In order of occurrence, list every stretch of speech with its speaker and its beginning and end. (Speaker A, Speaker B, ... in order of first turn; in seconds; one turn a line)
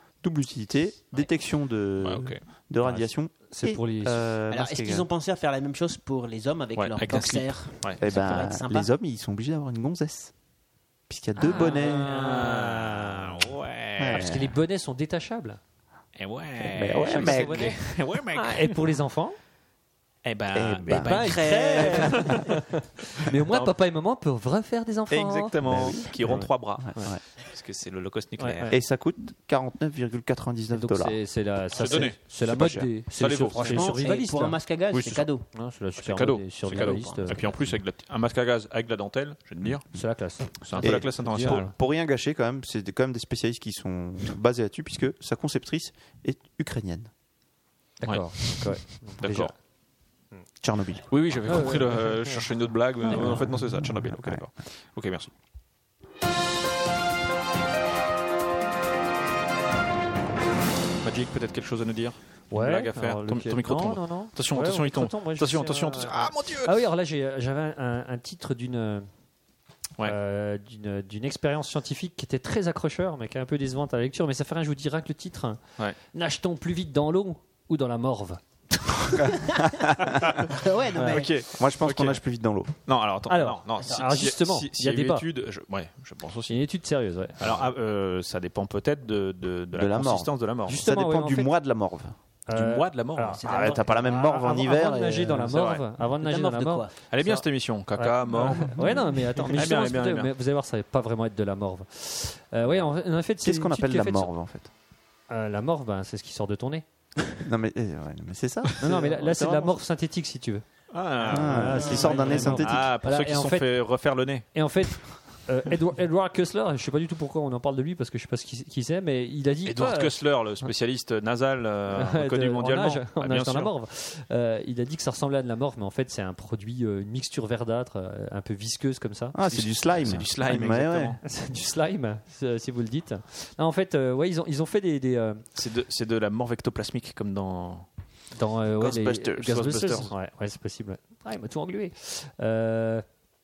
Speaker A: 0.2-5.1
Speaker B: 2.0-2.4
Speaker C: 2.8-4.2
Speaker D: 4.5-8.9
Speaker B: 6.8-8.0
Speaker A: 8.0-10.3
Speaker A: 11.1-12.3
Speaker B: 11.4-14.3
Speaker C: 11.5-13.3
Speaker A: 14.0-14.6
Speaker C: 14.1-15.6
Speaker B: 16.2-18.8
Speaker A: 16.6-18.0
Speaker C: 17.1-19.4
Speaker B: 20.2-22.5
Speaker A: 20.5-21.3
Speaker D: 21.0-22.4
Speaker C: 21.1-25.6
Speaker B: 23.5-23.7
Speaker B: 25.1-28.8
Speaker A: 25.6-27.2
Speaker C: 28.4-28.7
Speaker A: 28.7-31.2
Speaker C: 30.7-34.6
Speaker B: 31.8-32.2
Speaker A: 31.8-32.9
Speaker B: 33.1-34.1
Speaker D: 33.6-35.5
Speaker B: 34.9-35.3
Speaker C: 35.5-37.4
Speaker B: 36.0-39.9
Speaker D: 36.7-37.5
Speaker C: 39.9-41.7
Speaker B: 40.6-41.7
Speaker A: 40.8-47.1
Speaker C: 48.0-49.5
Speaker B: 48.0-49.5
Speaker A: 50.6-51.7
Speaker B: 51.1-55.3
Speaker C: 51.5-52.4
Speaker A: 53.1-54.4
Speaker C: 53.1-53.4
Speaker B: 61.0-66.8
Speaker C: 62.5-69.1
Speaker C: 70.0-75.6
Speaker C: 76.1-78.4
Speaker D: 79.5-79.7
Speaker D: 80.4-81.3
Speaker B: 81.0-82.2
Speaker A: 81.5-82.7
Speaker B: 82.9-86.6
Speaker C: 83.3-85.3
Speaker D: 83.8-84.1
Speaker C: 86.5-87.6
Speaker B: 87.4-90.8
Speaker A: 89.7-92.2
Speaker C: 90.7-91.5
Speaker C: 92.5-96.8
Speaker B: 92.5-93.5
Speaker D: 93.4-94.1
Speaker A: 93.5-95.6
Speaker B: 95.5-95.8
Speaker D: 96.2-97.4
Speaker B: 97.1-98.9
Speaker C: 98.0-104.3
Speaker A: 98.8-99.2
Speaker B: 99.5-100.3
Speaker A: 103.4-104.7
Speaker C: 105.3-106.8
Speaker A: 107.4-109.8
Speaker C: 108.8-110.7
Speaker B: 110.9-114.5
Speaker A: 111.3-112.9
Speaker C: 111.3-113.7
Speaker D: 111.8-112.4
Speaker C: 114.5-120.2
Speaker B: 119.7-123.7
Speaker C: 121.9-129.4
Speaker A: 129.3-131.2
Speaker B: 129.5-131.2
Speaker C: 131.2-135.4
Speaker B: 135.6-137.9
Speaker C: 138.3-143.1
Speaker A: 138.8-140.1
Speaker B: 139.5-140.1